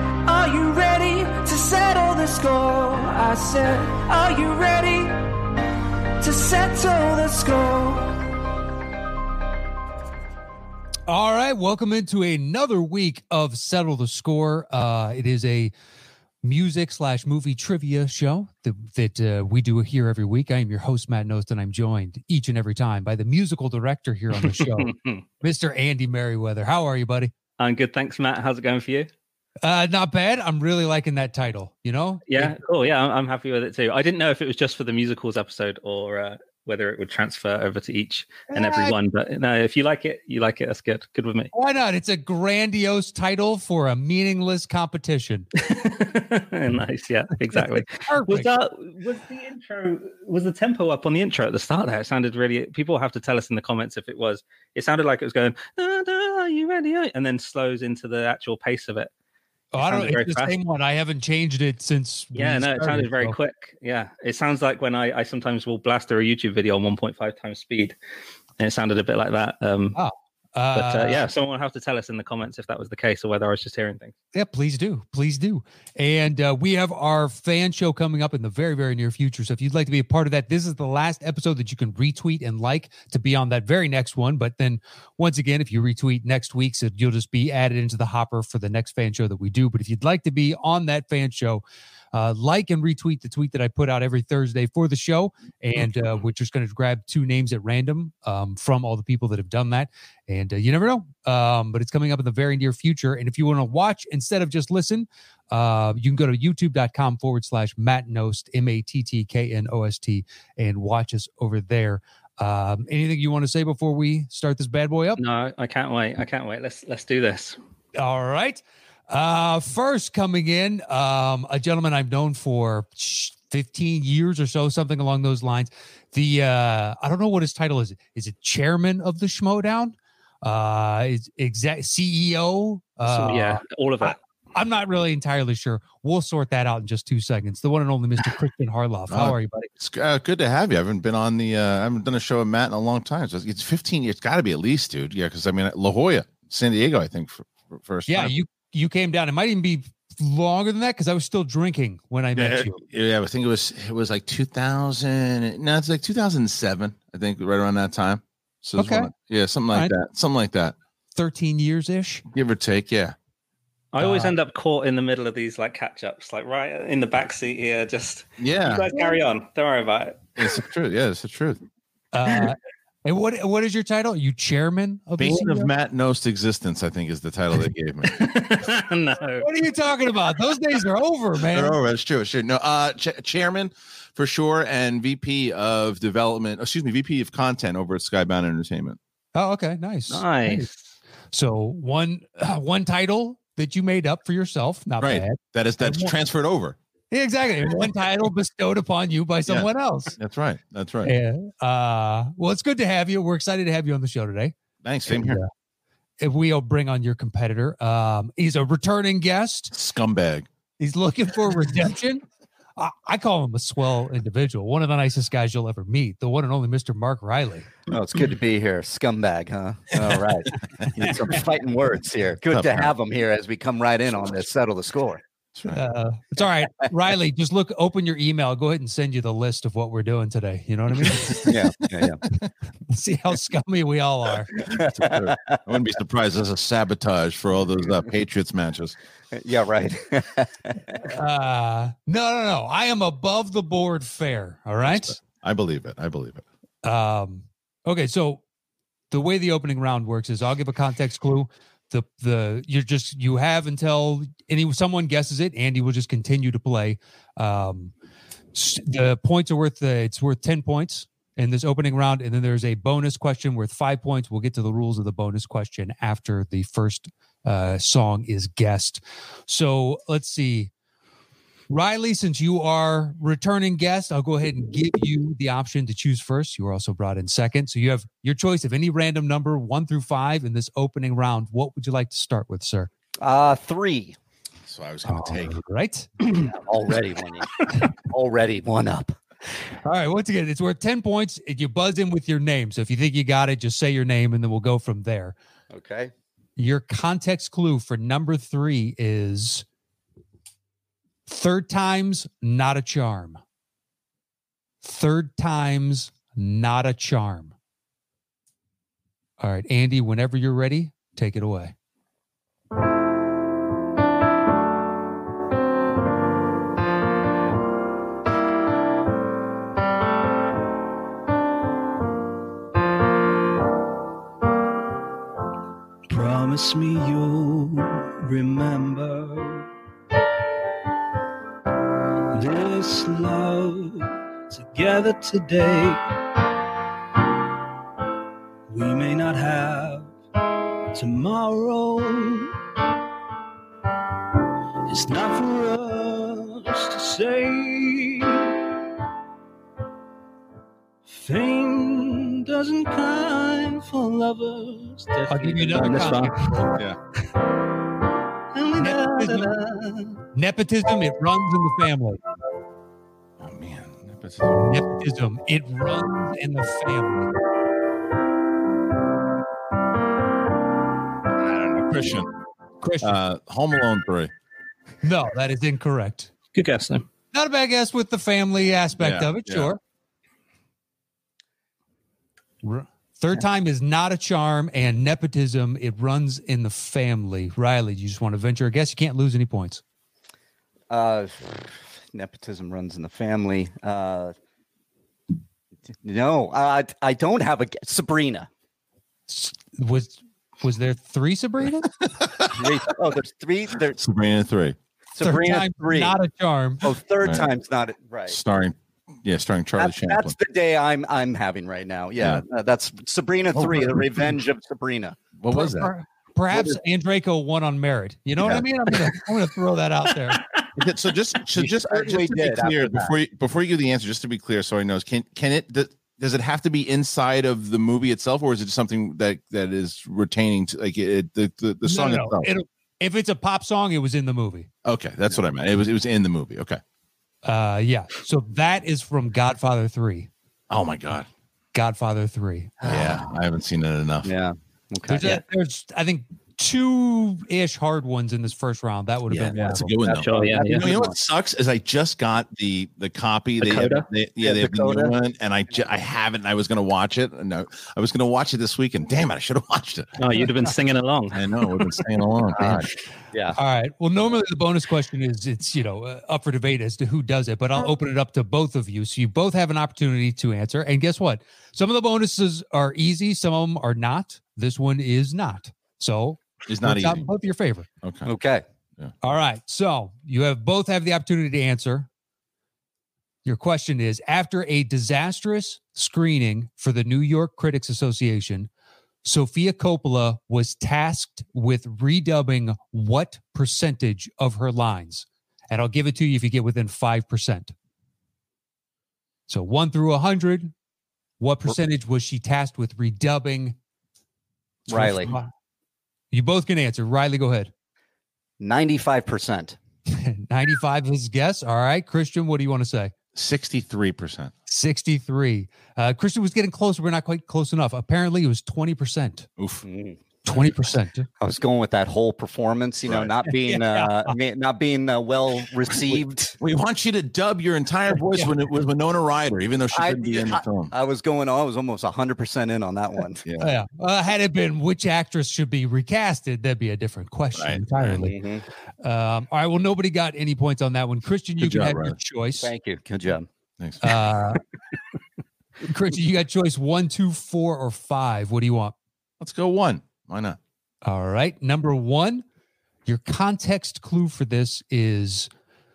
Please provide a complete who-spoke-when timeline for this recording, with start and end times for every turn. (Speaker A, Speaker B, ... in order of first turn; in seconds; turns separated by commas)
Speaker A: 0.2-5.2, Speaker A: 6.2-8.3, Speaker B: 11.1-15.7, Speaker B: 16.4-27.3, Speaker C: 24.6-25.2, Speaker C: 27.6-29.1, Speaker B: 29.6-32.6, Speaker C: 32.3-41.5, Speaker B: 38.5-38.9, Speaker B: 41.5-45.5, Speaker C: 45.6-59.1, Speaker B: 47.5-48.5, Speaker B: 59.7-63.4, Speaker C: 59.8-60.5, Speaker C: 62.3-68.0, Speaker C: 68.6-70.0, Speaker B: 70.0-71.2, Speaker C: 70.7-74.1, Speaker B: 74.3-115.2, Speaker C: 115.2-117.6, Speaker B: 118.0-139.7, Speaker C: 133.0-134.2, Speaker D: 139.1-148.3, Speaker B: 148.1-152.8, Speaker D: 152.3-160.8, Speaker B: 158.8-159.1, Speaker B: 161.1-162.2, Speaker D: 162.3-163.1, Speaker C: 163.9-170.3, Speaker B: 164.0-164.3, Speaker D: 168.4-168.9, Speaker D: 170.4-171.6, Speaker B: 172.1-175.7, Speaker D: 175.2-178.2, Speaker C: 178.1-179.5, Speaker B: 179.4-181.8, Speaker D: 181.4-189.0, Speaker B: 189.3-190.7, Speaker C: 190.1-190.7, Speaker B: 191.3-196.1, Speaker D: 195.0-196.8, Speaker B: 197.1-200.2, Speaker D: 199.5-201.1, Speaker B: 201.0-204.5, Speaker D: 204.8-205.4, Speaker B: 205.1-205.5, Speaker B: 206.2-209.7, Speaker D: 209.7-210.5, Speaker B: 210.8-212.2, Speaker B: 212.8-217.7, Speaker E: 217.9-225.2, Speaker D: 222.5-222.9, Speaker D: 225.5-225.8, Speaker B: 225.7-231.6, Speaker E: 231.4-232.2, Speaker B: 232.9-234.6, Speaker E: 234.6-235.6, Speaker D: 234.7-239.0, Speaker E: 239.3-241.1, Speaker B: 241.0-245.2, Speaker D: 244.8-246.4, Speaker B: 246.8-248.4, Speaker B: 249.1-257.9, Speaker B: 258.5-270.7, Speaker B: 271.7-282.9, Speaker E: 283.2-284.2, Speaker D: 284.6-285.6, Speaker B: 285.1-286.1, Speaker E: 286.2-289.2, Speaker B: 289.8-295.4, Speaker E: 295.7-296.1, Speaker B: 296.6-299.6, Speaker B: 301.3-303.4, Speaker B: 304.8-307.5, Speaker B: 309.4-311.7, Speaker A: 326.1-329.6, Speaker C: 327.0-327.3, Speaker A: 332.3-336.0, Speaker A: 338.7-340.1, Speaker A: 340.9-342.5, Speaker A: 344.9-348.5, Speaker C: 345.1-345.6, Speaker A: 351.1-355.0, Speaker C: 352.8-353.7, Speaker C: 354.8-356.6, Speaker B: 355.3-356.7, Speaker D: 356.7-357.0, Speaker C: 358.5-360.2, Speaker B: 358.8-359.6, Speaker B: 360.3-362.2, Speaker D: 363.4-364.7, Speaker B: 364.5-367.3, Speaker D: 371.4-372.3, Speaker B: 372.8-373.1, Speaker D: 373.0-374.3, Speaker B: 375.0-376.3, Speaker C: 376.5-377.0, Speaker B: 377.3-379.8, Speaker D: 379.0-379.7, Speaker B: 382.6-389.8, Speaker E: 390.9-394.3, Speaker E: 396.0-398.5, Speaker B: 399.3-401.9, Speaker D: 402.1-402.7, Speaker E: 402.5-404.0, Speaker D: 404.0-404.8, Speaker E: 405.1-406.1, Speaker B: 405.2-406.9, Speaker E: 406.8-408.4, Speaker D: 407.2-407.5, Speaker D: 408.3-410.4, Speaker E: 409.8-415.2, Speaker D: 412.2-412.4, Speaker D: 413.5-414.4, Speaker D: 415.4-415.9, Speaker B: 415.5-420.4, Speaker D: 416.5-416.8, Speaker D: 418.4-418.6, Speaker D: 420.7-432.5, Speaker E: 421.5-423.1, Speaker B: 431.8-434.7, Speaker D: 434.8-436.8, Speaker B: 437.4-440.3, Speaker D: 440.7-441.3, Speaker B: 441.7-443.0, Speaker D: 442.8-444.3, Speaker E: 442.8-443.2, Speaker E: 444.2-445.3, Speaker B: 445.1-449.9, Speaker D: 449.3-460.1, Speaker C: 450.0-450.9, Speaker E: 450.1-451.1, Speaker E: 453.6-455.1, Speaker C: 460.2-461.5, Speaker D: 461.3-462.9, Speaker E: 462.6-463.6, Speaker B: 463.5-477.9, Speaker D: 476.7-477.2, Speaker D: 478.0-478.3, Speaker E: 478.2-478.6, Speaker B: 479.2-482.1, Speaker B: 483.4-488.7, Speaker B: 489.2-497.7, Speaker B: 499.5-500.7, Speaker B: 501.4-503.8, Speaker E: 504.9-505.3, Speaker B: 504.9-505.5, Speaker B: 506.3-507.7, Speaker E: 508.6-509.8, Speaker B: 510.1-513.1, Speaker D: 513.3-514.5, Speaker B: 514.7-519.5, Speaker D: 519.6-519.8, Speaker E: 519.8-520.2, Speaker B: 520.4-521.3, Speaker E: 521.4-526.6, Speaker D: 523.0-523.3, Speaker B: 523.5-524.3, Speaker D: 525.9-530.9, Speaker E: 529.9-533.4, Speaker D: 533.4-533.7, Speaker B: 533.6-538.4, Speaker D: 537.5-538.2, Speaker E: 538.2-538.6, Speaker B: 539.0-542.7, Speaker D: 541.6-542.1, Speaker E: 542.6-543.5, Speaker D: 543.8-544.1, Speaker B: 544.0-544.6, Speaker B: 545.8-548.9, Speaker D: 549.4-550.6, Speaker B: 551.0-552.4, Speaker B: 553.0-555.5